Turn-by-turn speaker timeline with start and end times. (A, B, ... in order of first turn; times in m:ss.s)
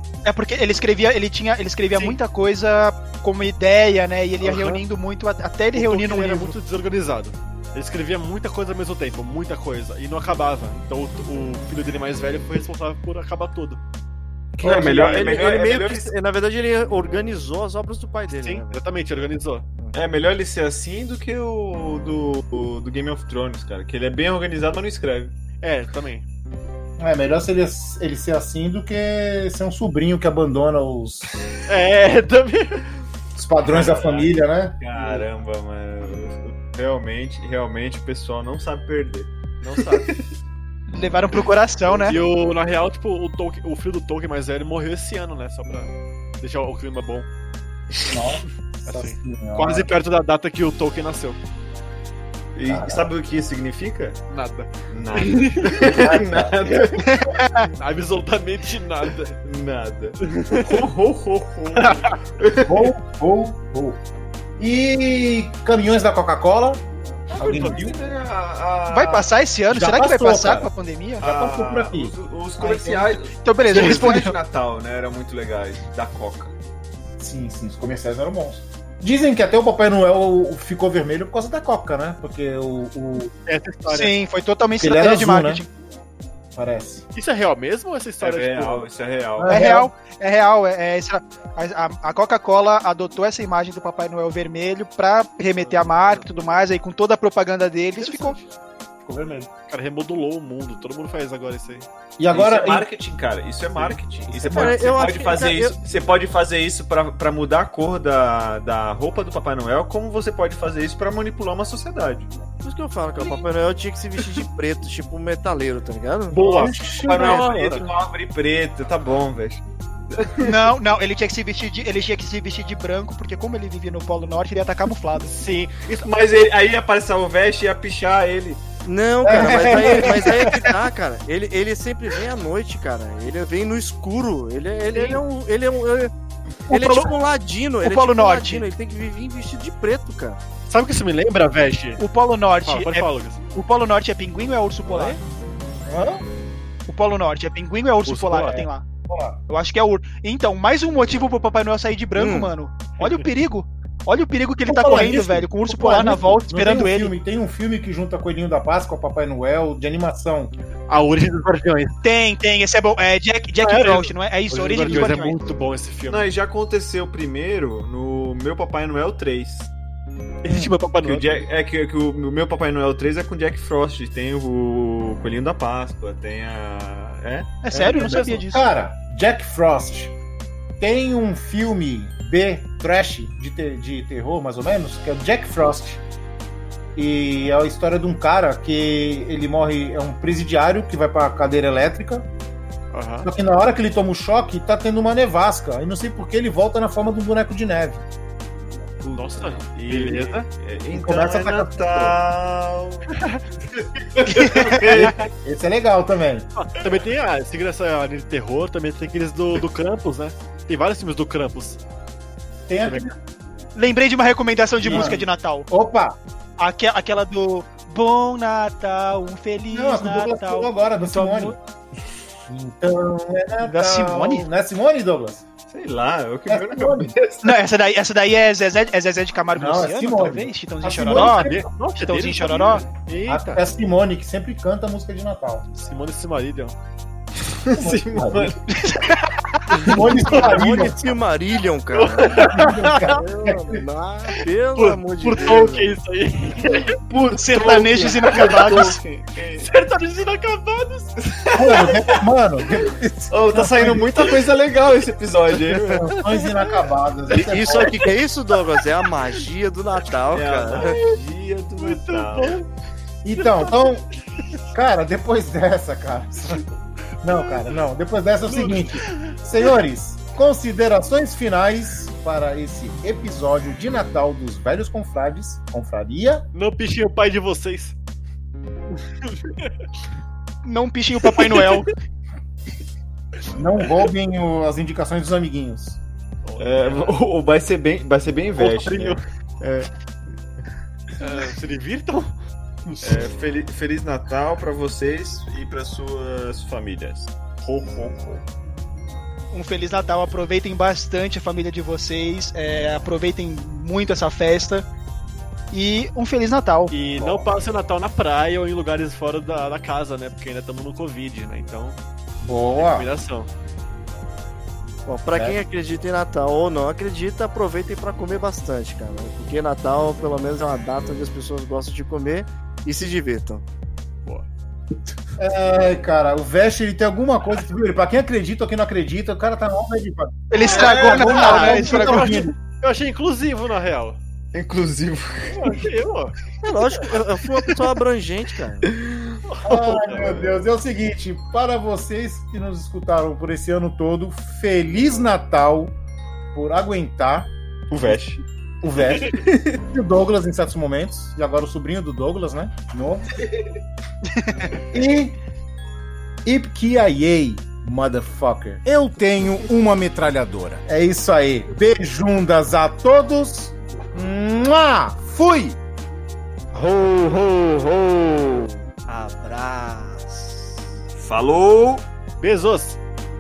0:00.2-0:06.6 A
0:04.4-0:04.8 B
0:05.7-0:13.8 B
0:14.6-0:15.4 C
0:14.6-0:16.1 D
0:14.6-0:18.8 E
0:18.3-0:19.6 B
0:19.9-0:25.3 D
0:25.6-0:26.3 B
0:27.0-0:31.3 C
0:31.7-0:32.9 B
0:33.4-0:34.8 C
0:33.6-0:40.2 D
0:39.6-0:40.0 B
0:40.9-0:42.2 A
0:41.9-0:47.3 B
0:48.1-0:49.9 C
0:48.9-0:51.4 B
0:52.6-0:54.2 D
0:52.7-0:53.0 C
0:54.3-0:56.1 B
0:54.9-0:57.2 D
0:56.0-0:56.8 C
0:57.2-0:57.7 A
0:57.8-0:59.3 B
0:59.4-1:02.9 D
1:00.2-1:00.8 B
1:01.8-1:02.2 B
1:02.7-1:04.0 C
1:04.6-1:06.8 C
1:07.4-1:09.3 D
1:07.4-1:07.9 C
1:07.4-1:07.9 B
1:08.9-1:11.2 A
1:09.7-1:10.7 C
1:11.2-1:13.2 C
1:11.2-1:16.5 D
1:13.4-1:14.3 A
1:13.8-1:14.0 B
1:17.2-1:23.3 C
1:23.5-1:24.1 B
1:23.9-1:25.7 A
1:24.8-1:25.6 C
1:26.6-1:27.0 C
1:27.2-1:28.9 B
1:28.2-1:29.6 D
1:29.4-1:29.9 C
1:29.5-1:38.4 A
1:35.7-1:36.2 B
1:38.0-1:38.4 B
1:39.1-1:39.5 C
1:39.7-1:41.9 B
1:42.2-1:42.9 C
1:42.3-1:52.3 D
1:44.4-1:44.8 C
1:44.5-1:44.8 B
1:44.5-1:45.8 E
1:52.6-1:56.4 E
1:53.2-1:53.5 D
1:56.3-1:57.9 B
1:56.4-1:59.6 D
1:56.4-1:57.5 C
2:00.1-2:00.6 D
2:00.4-2:05.3 A
2:05.2-2:06.1 B
2:05.9-2:08.6 D
2:08.8-2:16.1 E
2:09.2-2:10.4 C
2:16.7-2:17.1 A
2:16.7-2:20.4 E
2:17.8-2:18.7 A
2:20.7-2:22.0 B
2:22.0-2:25.2 A
2:22.6-2:23.4 B
2:24.9-2:25.1 B
2:25.9-2:26.2 C
2:26.9-2:28.9 A
2:28.1-2:28.7 B
2:29.1-2:29.4 C
2:29.5-2:37.1 A
2:32.2-2:32.5 E
2:34.7-2:40.5 C
2:40.9-2:42.0 B
2:42.0-2:45.4 A
2:43.6-2:46.3 B
2:46.1-2:49.7 D
2:50.4-2:51.5 B
2:51.0-2:57.5 D
2:57.6-2:58.6 A
2:57.7-3:00.2 C
3:00.8-3:06.0 C
3:07.0-3:12.3 C
3:12.9-3:13.3 B
3:13.2-3:18.0 C
3:19.0-3:23.1 D
3:19.1-3:20.5 B
3:20.9-3:22.2 C
3:23.1-3:23.4 B
3:23.8-3:25.3 D
3:24.3-3:24.8 A
3:25.0-3:26.5 C
3:26.6-3:31.8 B
3:32.7-3:33.1 C
3:32.8-3:33.1 B
3:33.8-3:35.7 A
3:34.8-3:36.2 C
3:34.8-3:35.2 B
3:36.6-3:41.6 A
3:39.7-3:41.6 C
3:42.5-3:45.4 C
3:43.6-3:44.5 A
3:45.7-3:47.6 D
3:46.5-3:47.1 C
3:47.4-3:52.9 A
3:49.6-3:51.7 C
3:51.1-3:53.6 B
3:53.3-3:55.6 C
3:55.7-3:56.8 B
3:57.6-3:58.6 D
3:57.8-3:58.6 C
3:58.7-3:59.9 A
3:59.8-4:00.9 B
3:59.9-4:01.0 C
4:00.4-4:05.9 E
4:01.9-4:03.1 B
4:02.4-4:03.8 C
4:04.8-4:07.0 B
4:06.9-4:09.7 D
4:07.3-4:09.0 A
4:09.6-4:11.2 B
4:11.4-4:12.2 D
4:11.6-4:14.1 C
4:13.3-4:16.0 D
4:15.8-4:16.3 B
4:15.9-4:18.0 C
4:17.4-4:21.0 E
4:20.3-4:22.6 D
4:21.8-4:22.7 B
4:23.2-4:24.0 C
4:23.4-4:23.8 B
4:24.7-4:26.6 C
4:27.2-4:36.5 C
4:28.5-4:29.3 B
4:36.5-4:38.0 B
4:39.2-4:39.7 B
4:40.6-4:41.9 A
4:41.3-4:41.9 B
4:43.5-4:46.0 C
4:46.4-4:47.2 B
4:46.6-4:49.9 D
4:48.6-4:49.2 B
4:51.2-4:52.3 B
4:52.9-4:53.3 B
4:53.0-4:57.3 D
4:57.6-4:58.4 B
4:59.5-5:04.9 A
5:05.7-5:06.9 A
5:06.9-5:12.0 B
5:07.2-5:07.5 C
5:12.4-5:13.1 C
5:12.8-5:13.5 B
5:15.1-5:23.6 E
5:15.3-5:15.6 C
5:25.4-5:32.5 C
5:30.5-5:32.3 A
5:30.6-5:31.8 D
5:30.7-5:34.2 B
5:34.5-5:35.9 D
5:35.5-5:36.4 B
5:36.6-5:38.9 E
5:38.9-5:39.4 D
5:39.5-5:40.4 B
5:39.6-5:46.0 C
5:40.1-5:40.5 D
5:46.5-5:47.5 C
5:47.9-5:48.4 D
5:48.8-5:53.3 C
5:49.3-5:49.8 D
5:54.9-5:55.4 C
5:56.4-6:05.8 C
6:06.7-6:10.8 E
6:11.2-6:12.0 D
6:12.4-6:13.0 B